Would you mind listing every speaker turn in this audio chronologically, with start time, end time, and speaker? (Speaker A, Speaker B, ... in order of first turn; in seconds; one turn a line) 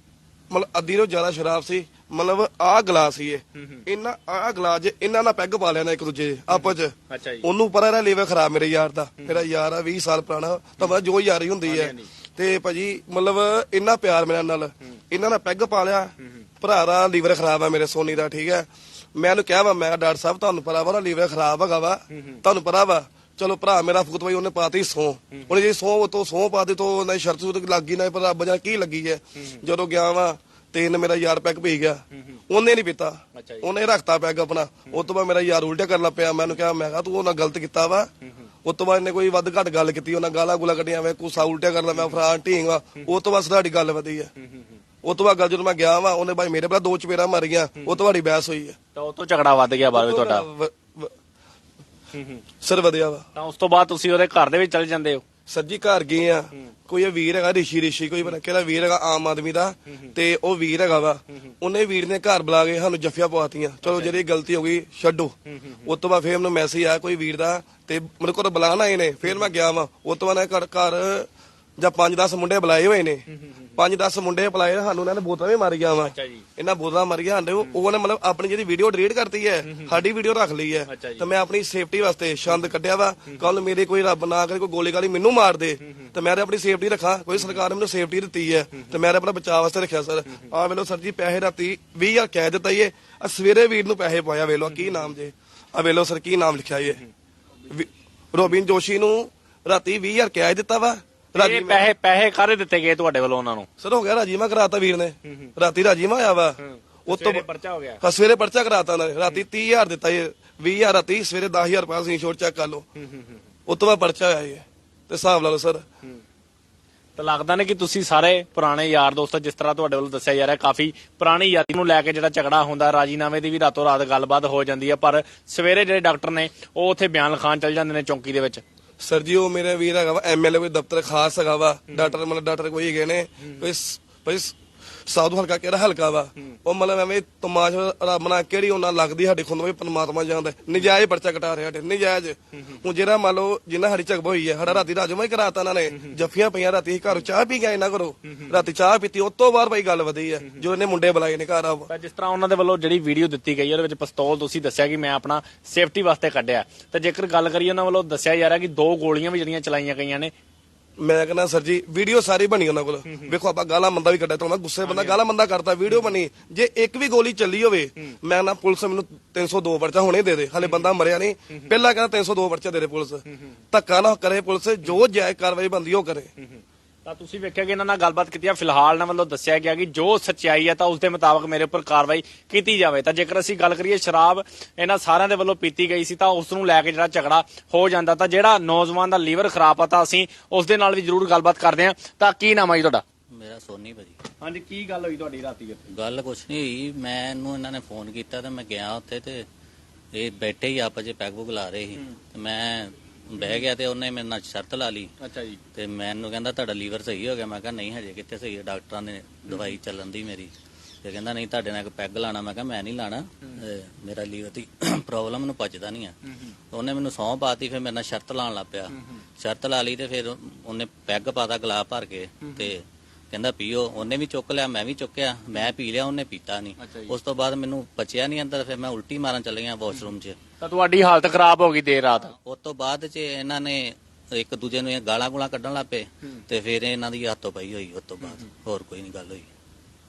Speaker A: 0.5-38.1
Speaker B: 3.6-3.9
Speaker B: 6.5-7.5
Speaker B: 11.7-12.1
Speaker B: 22.1-22.4
Speaker B: 29.4-29.6
Speaker B: 32.1-32.4
Speaker B: 33.4-33.7
Speaker A: 38.6-44.3
Speaker B: 44.4-44.8
Speaker A: 45.0-48.8
Speaker B: 49.0-50.5
Speaker A: 49.9-51.1
Speaker B: 52.1-52.4
Speaker A: 52.6-53.2
Speaker B: 53.4-55.2
Speaker A: 55.5-71.3
Speaker B: 63.8-64.2
Speaker B: 65.5-65.9
Speaker A: 71.8-73.2
Speaker B: 73.3-73.8
Speaker A: 73.8-97.0
Speaker B: 76.0-76.5
Speaker B: 79.7-79.9
Speaker B: 80.9-81.3
Speaker B: 94.7-95.1
Speaker A: 97.7-101.9
Speaker B: 101.3-103.7
Speaker A: 103.8-107.5
Speaker B: 106.6-108.0
Speaker A: 108.0-112.9
Speaker B: 113.0-113.4
Speaker A: 113.7-115.8
Speaker B: 117.2-128.6
Speaker A: 129.0-134.6
Speaker B: 131.9-132.2
Speaker A: 135.1-151.9
Speaker B: 142.6-142.8
Speaker B: 145.9-146.2
Speaker B: 148.3-148.6
Speaker B: 151.9-160.3
Speaker A: 161.0-176.3
Speaker B: 163.1-163.3
Speaker B: 164.8-165.2
Speaker B: 170.6-170.9
Speaker B: 176.4-193.0
Speaker C: 193.3-194.2
Speaker B: 194.4-195.9
Speaker C: 195.9-199.4
Speaker C: 200.1-205.1
Speaker B: 203.4-203.7
Speaker B: 205.2-205.6
Speaker C: 205.8-210.5
Speaker B: 209.5-209.8
Speaker C: 211.0-216.2
Speaker B: 216.3-216.5
Speaker C: 216.7-230.4
Speaker B: 218.9-219.2
Speaker B: 222.4-222.7
Speaker B: 226.8-227.2
Speaker B: 230.6-232.3
Speaker C: 232.2-239.5